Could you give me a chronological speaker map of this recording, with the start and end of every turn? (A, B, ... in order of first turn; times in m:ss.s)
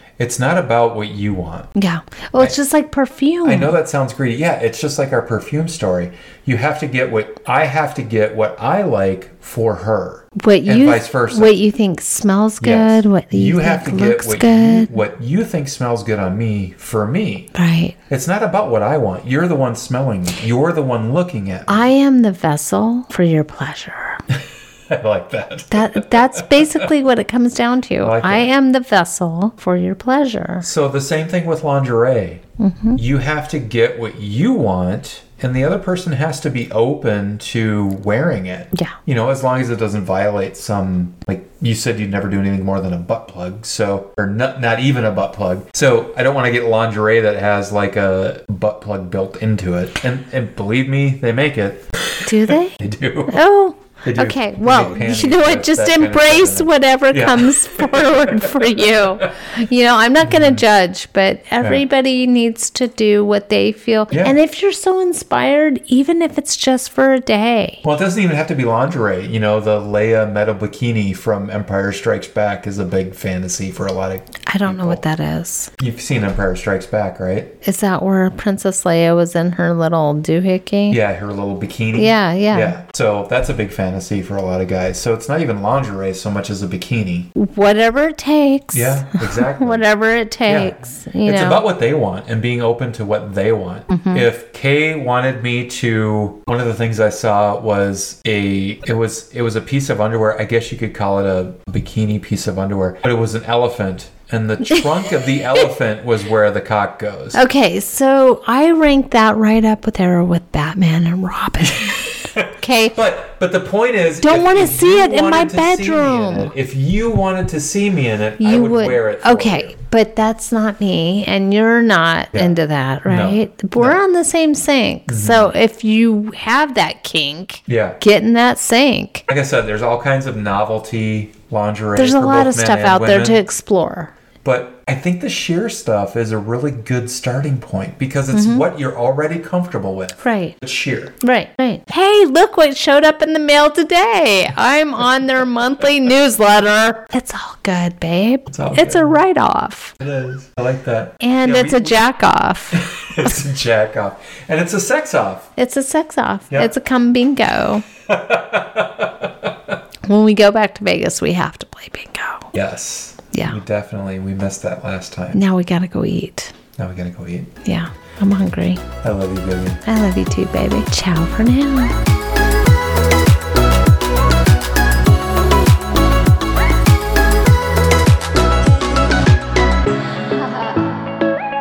0:00.2-0:01.7 A
0:01.8-0:03.7 B
0:03.4-0:11.5 A
0:10.4-0:14.9 B
0:12.6-0:17.5 A
0:17.6-0:18.0 B
0:18.1-0:21.9 A
0:21.7-0:24.2 B
0:24.3-0:26.9 A
0:25.7-0:30.7 B
0:28.0-0:28.5 A
0:30.6-0:32.4 A
0:32.6-0:33.0 B
0:33.0-0:53.4 A
0:52.2-0:52.8 B
0:53.3-1:07.8 B
0:54.0-0:59.3 A
1:00.2-1:00.6 A
1:04.1-1:04.4 A
1:07.8-1:15.0 A
1:14.5-1:15.7 B
1:15.8-1:17.6 A
1:17.6-1:21.0 B
1:20.9-1:27.3 A
1:22.0-1:22.8 B
1:27.4-1:31.6 B
1:28.7-1:29.9 A
1:30.5-1:47.4 A
1:33.9-1:34.3 B
1:47.3-1:53.0 B
1:51.6-1:59.7 A
1:54.2-1:56.5 B
1:58.4-2:09.2 B
2:02.3-2:04.0 A
2:05.1-2:05.5 A
2:07.7-2:08.0 A
2:09.3-2:13.4 A
2:12.0-2:14.1 B
2:14.4-2:21.2 A
2:18.3-2:18.7 B
2:20.2-2:20.6 B
2:21.2-2:30.0 B
2:28.5-2:29.2 A
2:30.0-2:32.0 A
2:31.2-2:33.4 B
2:32.7-2:35.5 A
2:35.6-2:37.9 B
2:38.1-2:39.5 A
2:40.1-2:42.5 B
2:42.5-2:45.4 A
2:43.3-2:43.6 B
2:45.3-2:46.6 B
2:46.8-2:47.5 A
2:47.6-2:48.8 B
2:49.0-2:49.8 A
2:49.8-2:52.0 B